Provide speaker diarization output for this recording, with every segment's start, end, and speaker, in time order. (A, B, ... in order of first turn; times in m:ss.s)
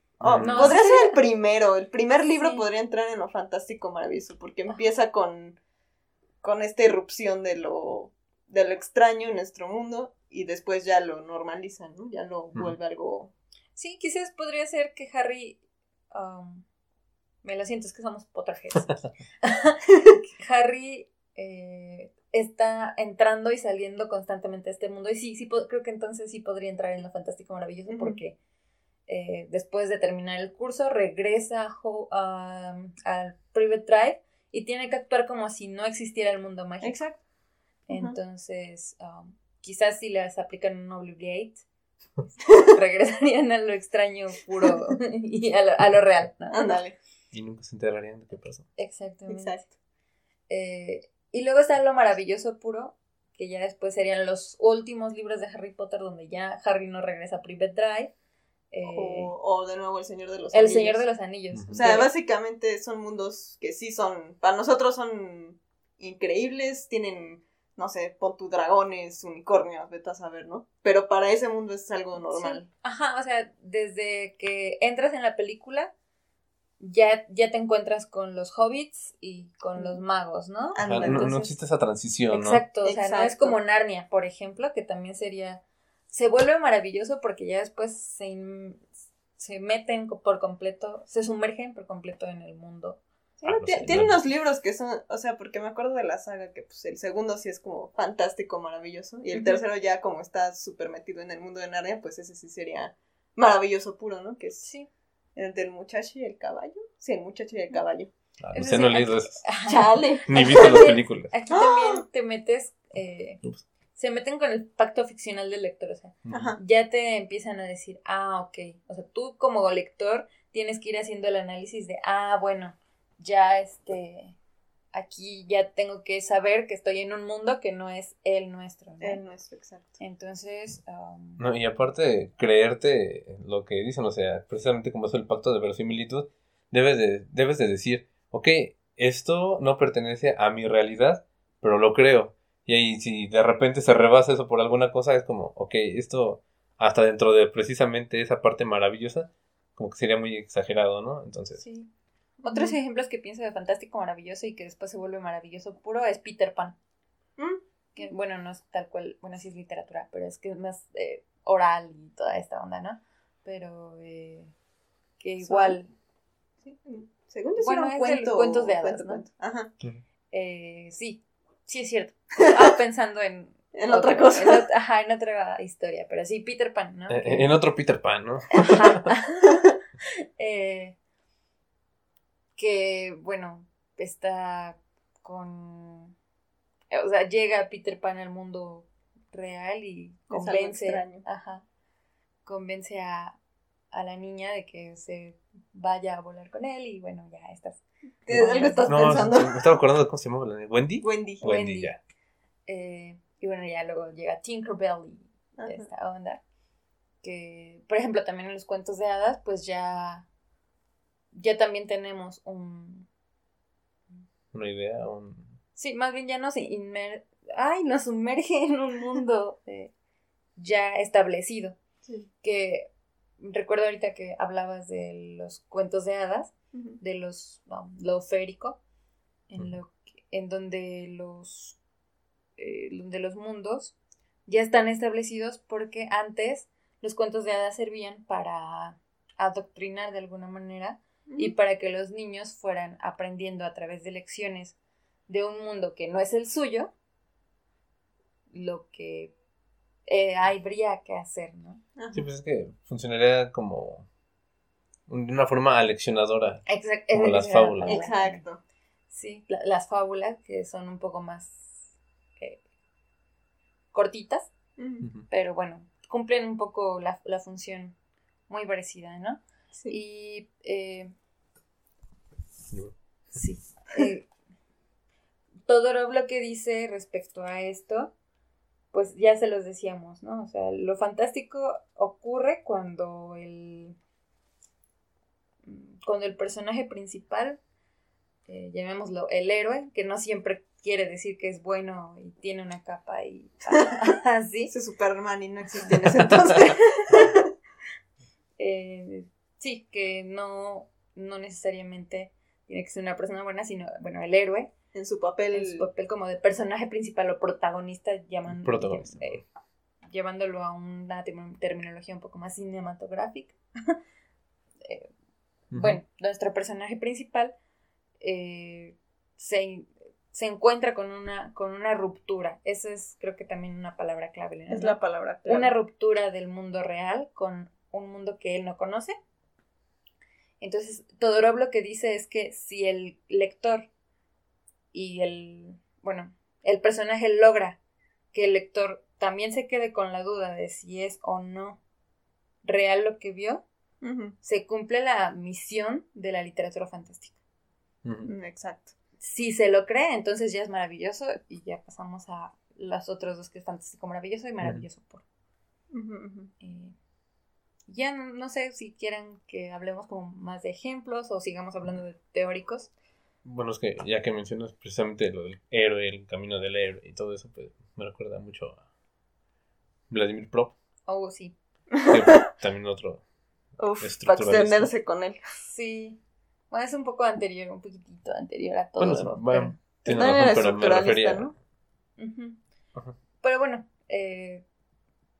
0:00.2-0:00.8 A
0:00.2-0:05.6 B
0:00.4-0:01.2 C
0:02.2-0:02.6 C
0:06.4-0:13.3 B
0:13.8-0:15.6 C
0:16.1-0:16.6 C
0:17.4-0:28.3 C
0:27.9-0:28.2 B
0:29.1-0:37.0 C
0:36.8-0:37.2 B
0:37.9-0:41.6 C
0:37.9-0:38.2 B
0:42.2-0:46.8 C
0:46.5-0:47.0 B
0:47.3-0:48.7 A
0:48.8-0:49.6 C
0:49.3-0:49.6 B
0:50.5-0:58.1 C
0:58.7-0:59.3 C
0:58.9-1:01.0 B
1:00.5-1:02.1 C
1:01.5-1:01.9 A
1:01.7-1:12.7 B
1:12.2-1:15.9 C
1:16.8-1:21.6 C
1:20.7-1:21.3 B
1:20.8-1:22.6 A
1:22.3-1:28.8 C
1:22.8-1:23.6 B
1:29.4-1:33.0 C
1:33.4-1:44.7 B
1:33.5-1:34.2 A
1:39.3-1:39.6 C
1:44.6-1:44.9 C
1:45.4-1:48.1 B
1:48.4-1:49.4 A
1:48.5-1:53.4 C
1:49.6-1:50.9 B
1:50.3-1:51.3 A
1:51.5-1:52.0 B
1:53.9-2:04.4 C
1:56.2-1:56.6 A
1:56.3-1:56.6 B
2:04.9-2:09.2 C
2:09.0-2:10.0 B
2:10.0-2:11.4 C
2:11.4-2:31.6 A
2:31.6-2:31.9 C
2:32.4-2:36.8 C
2:32.4-2:32.8 B
2:38.0-2:44.5 C
2:45.2-2:45.9 C
2:45.4-2:45.8 B
2:46.6-2:49.7 B
2:47.6-2:49.2 C
2:50.3-2:57.6 C
2:53.7-2:54.6 B
2:57.1-2:59.1 A
2:58.5-2:59.6 C
3:00.4-3:01.0 C
3:02.6-3:06.1 C
3:06.9-3:11.6 C
3:10.3-3:11.2 B
3:12.4-3:13.4 C
3:13.9-3:19.2 C
3:18.2-3:19.6 B
3:18.4-3:22.0 A
3:21.0-3:21.5 B
3:21.4-3:21.9 C
3:22.7-3:26.4 C
3:25.6-3:25.9 B
3:27.2-3:30.2 C
3:31.3-3:33.1 C
3:34.5-3:35.5 A
3:35.8-3:39.9 C
3:40.6-3:41.8 C
3:42.4-3:48.8 C
3:46.7-3:47.0 B
3:49.5-3:51.8 C
3:52.6-3:54.0 C
3:54.5-4:04.8 C
4:01.3-4:01.5 B
4:05.3-4:06.9 C
4:08.5-4:09.3 C
4:10.1-4:11.8 C
4:12.0-4:12.2 B
4:12.1-4:14.1 A
4:15.1-4:18.0 A
4:16.7-4:18.4 C
4:17.8-4:18.6 B
4:19.1-4:21.8 C
4:23.9-4:24.5 C
4:24.8-4:25.1 B
4:25.3-4:27.9 C
4:28.5-4:31.1 C
4:33.3-4:34.3 C
4:35.7-4:38.1 C
4:38.9-4:44.0 C
4:45.6-4:47.6 C
4:48.5-4:54.7 C
4:54.7-4:57.4 B
4:58.6-5:04.7 C
5:04.9-5:05.9 B
5:05.5-5:09.4 C
5:08.5-5:09.4 A
5:10.0-5:13.6 C
5:14.8-5:15.1 C
5:15.7-5:16.0 A
5:15.7-5:17.6 C
5:18.2-5:29.2 C
5:24.7-5:25.7 B
5:30.6-5:33.9 C
5:34.9-5:37.8 C
5:38.3-5:41.8 C
5:42.6-5:43.6 C
5:44.0-5:44.3 B
5:44.4-5:47.4 C
5:48.0-5:48.3 A
5:48.2-5:48.9 B
5:49.2-5:55.2 C
5:55.9-5:56.5 B
5:56.6-5:56.9 C
5:57.9-6:02.9 C
6:03.4-6:08.8 A
6:10.1-6:10.7 A
6:11.1-6:11.6 C
6:12.0-6:12.4 B
6:12.1-6:13.2 A
6:13.8-6:15.4 B
6:14.0-6:14.9 A
6:15.7-6:16.2 C
6:16.7-6:19.8 C
6:19.0-6:21.5 A
6:20.0-6:21.5 B
6:22.2-6:22.6 C
6:23.4-6:24.6 C